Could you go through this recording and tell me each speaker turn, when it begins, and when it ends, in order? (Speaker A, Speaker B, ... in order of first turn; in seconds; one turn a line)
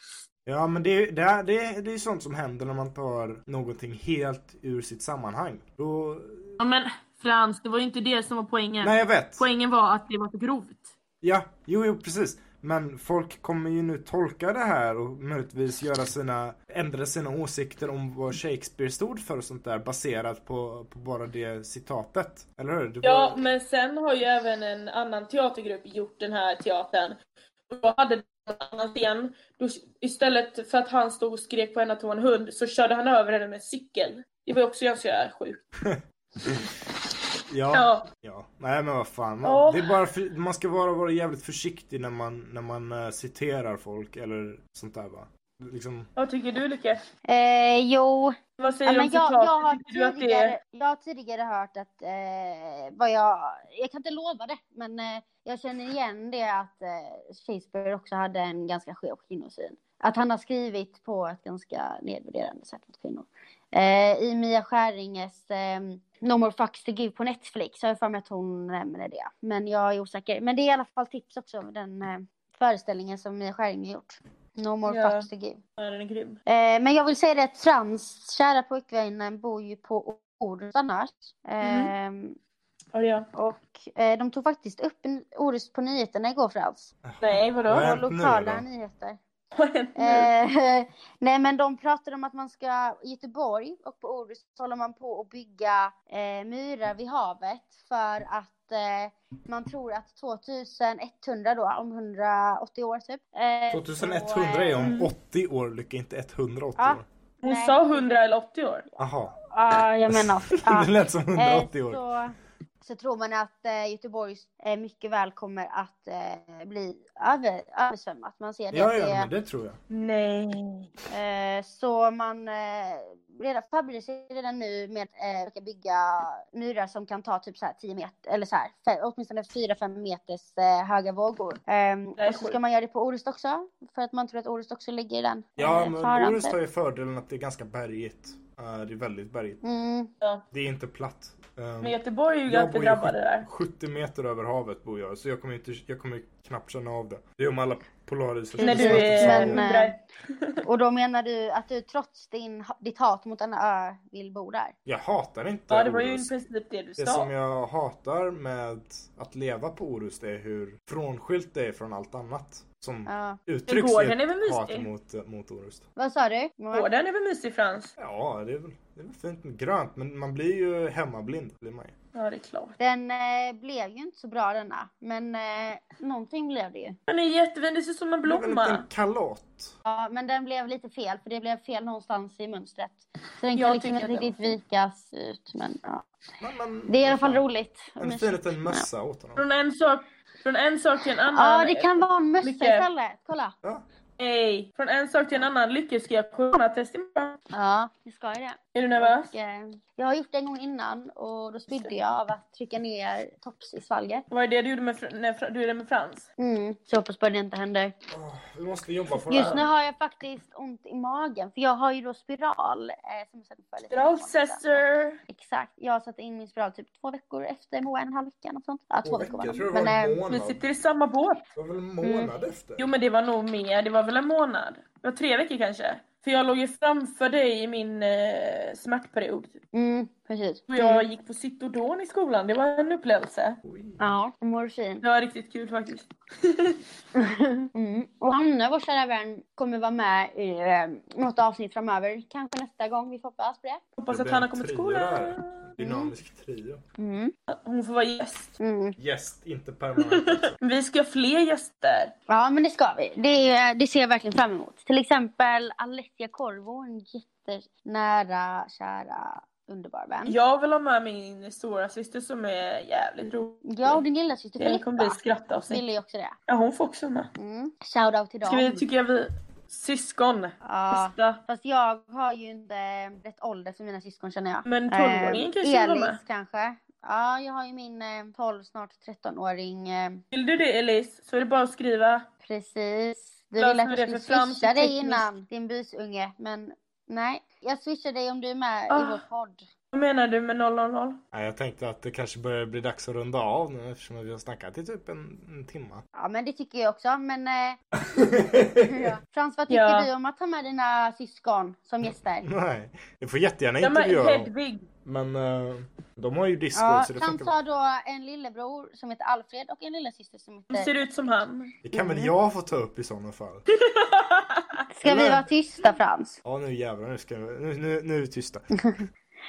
Speaker A: 0.5-6.5
Speaker B: 6.6-10.9
Speaker A: 8.8-9.4
Speaker A: 11.2-23.4
Speaker B: 23.0-27.2
Speaker B: 27.7-35.6
Speaker A: 35.8-36.6
Speaker A: 37.5-46.1
Speaker B: 37.7-38.1
Speaker B: 39.4-39.9
Speaker B: 46.1-47.0
Speaker C: 47.3-75.6
Speaker B: 48.6-50.6
Speaker B: 74.8-76.4
Speaker C: 76.5-82.4
Speaker B: 81.6-81.9
Speaker B: 82.9-83.3
Speaker C: 83.3-86.9
Speaker A: 87.0-88.6
Speaker B: 87.2-87.9
Speaker C: 87.7-89.2
Speaker B: 89.5-90.3
Speaker C: 90.0-104.9
Speaker A: 103.7-107.0
Speaker B: 104.8-105.1
Speaker C: 106.8-108.2
Speaker B: 107.4-108.8
Speaker A: 109.0-109.3
Speaker C: 109.5-119.3
Speaker A: 110.1-112.0
Speaker A: 118.7-119.8
Speaker B: 119.9-120.9
Speaker C: 121.1-136.6
Speaker B: 132.2-132.6
Speaker A: 135.6-139.6
Speaker C: 139.6-140.1
Speaker A: 140.5-149.6
Speaker B: 141.8-143.5
Speaker C: 148.6-149.9
Speaker B: 148.6-150.6
Speaker C: 150.6-154.7
Speaker A: 154.8-156.3
Speaker B: 155.7-157.3
Speaker A: 157.0-165.8
Speaker C: 163.1-163.4
Speaker B: 163.7-164.9
Speaker C: 166.0-166.9
Speaker B: 166.7-167.9
Speaker A: 168.0-171.9
Speaker B: 172.1-172.8
Speaker C: 172.8-177.0
Speaker B: 177.1-178.8
Speaker A: 178.2-179.7
Speaker C: 179.8-186.1
Speaker B: 183.5-184.6
Speaker A: 186.4-187.4
Speaker C: 186.9-188.8
Speaker A: 188.0-189.4
Speaker B: 189.3-192.9
Speaker C: 191.3-193.5
Speaker B: 194.2-197.4
Speaker C: 197.5-204.2
Speaker B: 198.7-199.3
Speaker B: 204.3-206.3
Speaker C: 206.4-207.9
Speaker A: 208.1-209.6
Speaker C: 209.3-220.2
Speaker B: 209.3-209.6
Speaker B: 213.9-215.2
Speaker A: 219.0-220.6
Speaker B: 220.3-221.4
Speaker A: 221.6-222.9
Speaker C: 222.0-222.3
Speaker B: 222.8-229.6
Speaker C: 229.7-231.1
Speaker B: 230.7-233.6
Speaker A: 233.6-234.0
Speaker C: 234.0-235.0
Speaker B: 235.0-236.8
Speaker C: 237.2-243.8
Speaker B: 244.0-245.9
Speaker A: 244.1-246.8
Speaker C: 245.8-246.1
Speaker C: 247.0-247.3
Speaker B: 247.5-248.5
Speaker C: 248.6-248.9
Speaker A: 249.0-250.5
Speaker B: 250.0-252.1
Speaker C: 252.3-260.4
Speaker B: 260.2-264.0
Speaker C: 263.6-266.3
Speaker B: 264.6-265.8
Speaker B: 266.5-267.3
Speaker C: 267.4-268.8
Speaker B: 268.4-271.4
Speaker C: 270.6-280.2
Speaker B: 274.6-276.2
Speaker B: 280.3-282.2
Speaker C: 282.4-289.6
Speaker B: 283.6-285.4
Speaker B: 288.9-289.2
Speaker B: 289.9-291.2
Speaker A: 291.3-296.0
Speaker C: 296.1-297.8
Speaker A: 298.0-299.1
Speaker C: 298.8-302.5
Speaker B: 299.7-300.1
Speaker A: 302.0-304.5
Speaker B: 303.8-304.9
Speaker A: 305.0-307.5
Speaker C: 306.7-310.9
Speaker B: 310.7-311.7
Speaker A: 311.8-313.6
Speaker C: 311.9-312.3
Speaker B: 313.7-314.8
Speaker C: 314.9-316.4
Speaker A: 315.0-315.4
Speaker A: 316.4-318.7
Speaker C: 318.8-319.0